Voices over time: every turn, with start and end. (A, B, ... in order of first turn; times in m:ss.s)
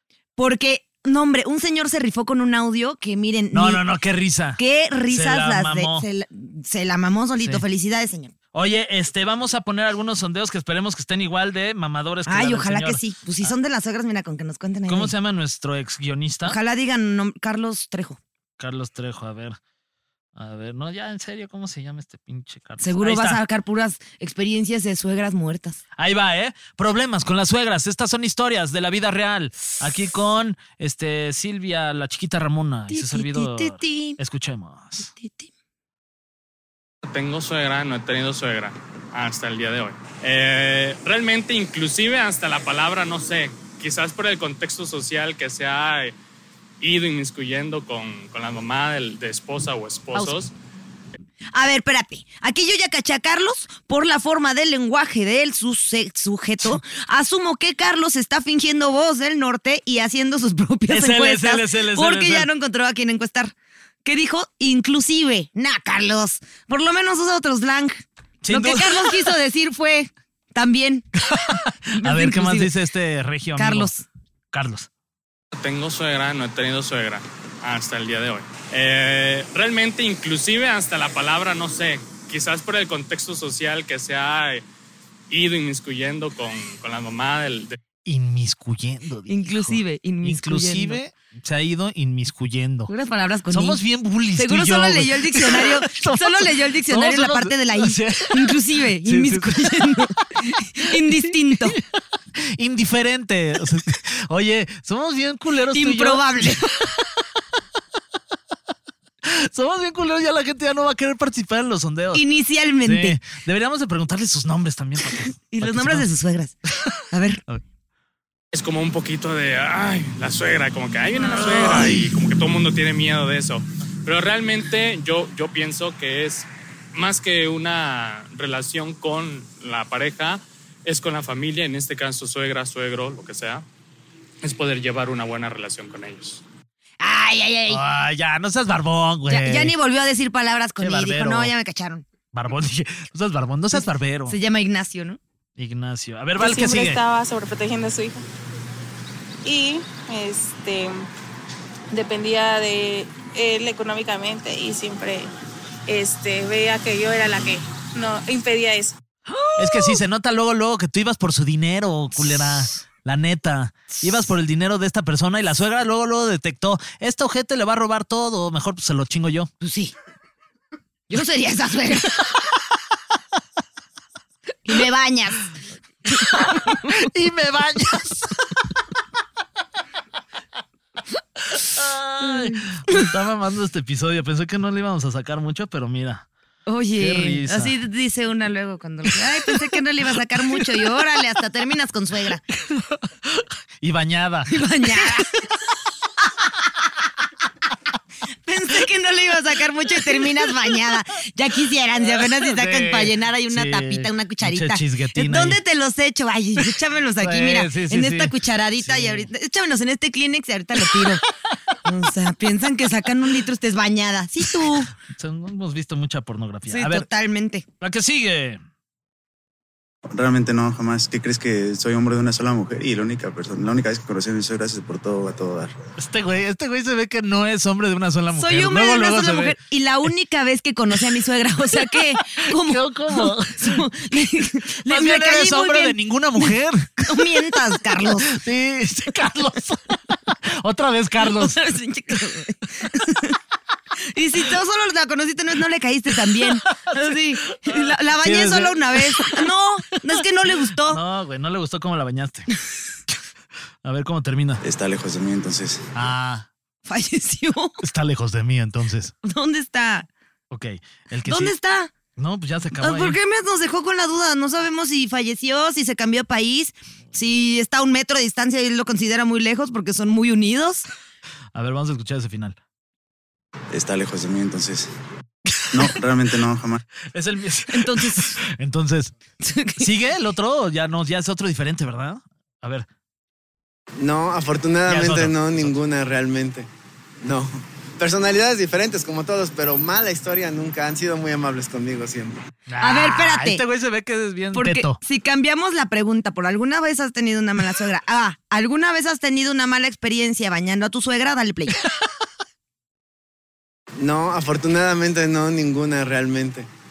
0:00.4-0:03.8 A
0:03.5-0:06.1 B
0:04.6-0:08.3 A
0:08.5-0:13.5 B
0:12.3-0:15.1 A
0:14.9-0:16.6 B
0:16.4-0:18.2 A
0:18.6-0:19.6 B
0:20.4-0:23.4 B
0:22.8-0:25.8 A
0:26.0-0:35.1 B
0:32.9-0:34.2 A
0:35.0-0:35.5 A
0:37.0-0:46.1 C
0:46.8-0:50.5 C
0:51.5-1:11.1 A
1:00.9-1:02.5 B
1:08.4-1:09.3 B
1:11.2-1:13.9 B
1:12.0-1:12.7 A
1:13.6-1:14.1 A
1:14.5-1:14.9 B
1:15.5-1:24.6 C
1:25.3-1:27.8 C
1:28.0-1:32.9 B
1:29.3-1:31.0 A
1:32.9-1:33.8 A
1:33.5-1:39.9 B
1:34.4-1:41.8 A
1:40.8-1:41.8 B
1:42.4-1:47.2 B
1:45.7-1:46.7 A
1:49.2-1:52.2 B
1:52.1-1:53.2 A
1:52.8-1:56.1 B
1:55.5-1:56.6 A
1:56.7-1:57.6 B
1:57.1-1:57.4 A
1:58.5-2:13.6 C
2:01.4-2:02.0 B
2:14.4-2:16.4 C
2:17.0-2:17.8 A
2:17.7-2:19.8 B
2:19.3-2:22.0 A
2:20.8-2:21.5 B
2:22.3-2:24.4 B
2:23.7-2:25.2 A
2:25.6-2:27.0 B
2:26.4-2:28.2 D
2:29.4-2:31.1 D
2:31.9-2:35.3 D
2:35.9-2:39.0 D
2:39.3-2:40.0 A
2:39.6-2:49.5 B
2:49.6-2:49.9 A
2:51.1-2:52.2 A
2:54.6-2:55.4 A
2:56.2-2:56.9 A
2:56.2-2:58.6 B
3:01.5-3:06.3 B
3:02.2-3:03.1 A
3:06.7-3:12.4 A
3:07.0-3:07.8 B
3:12.6-3:15.1 B
3:14.5-3:15.5 A
3:18.5-3:31.2 A
3:22.1-3:25.6 B
3:27.2-3:29.3 B
3:31.8-3:34.9 A
3:34.6-3:37.1 B
3:36.7-3:37.6 A
3:37.8-3:38.6 B
3:40.1-3:45.8 E
3:46.0-3:49.6 B
3:48.3-3:58.3 A
3:52.4-3:53.9 B
3:54.9-3:57.4 B
3:58.2-4:01.6 B
4:01.2-4:03.4 A
4:04.1-4:11.0 A
4:07.5-4:09.5 B
4:10.8-4:12.5 B
4:13.8-4:14.6 B
4:14.6-4:15.8 E
4:15.9-4:16.5 B
4:16.9-4:17.8 A
4:17.8-4:19.1 B
4:19.2-4:20.1 A
4:20.5-4:21.6 B
4:21.3-4:21.9 A
4:22.2-4:23.2 B
4:22.8-4:30.9 A
4:31.5-4:32.6 B
4:33.7-4:34.9 E
4:35.7-4:36.8 E
4:37.1-4:39.1 B
4:37.7-4:38.4 A
4:39.4-4:39.9 A
4:39.8-4:42.9 B
4:44.0-4:46.7 F
4:44.9-4:45.7 B
4:47.2-4:52.4 F
4:52.7-4:55.0 B
4:52.8-4:53.6 A
4:54.5-5:01.8 A
5:04.0-5:06.7 F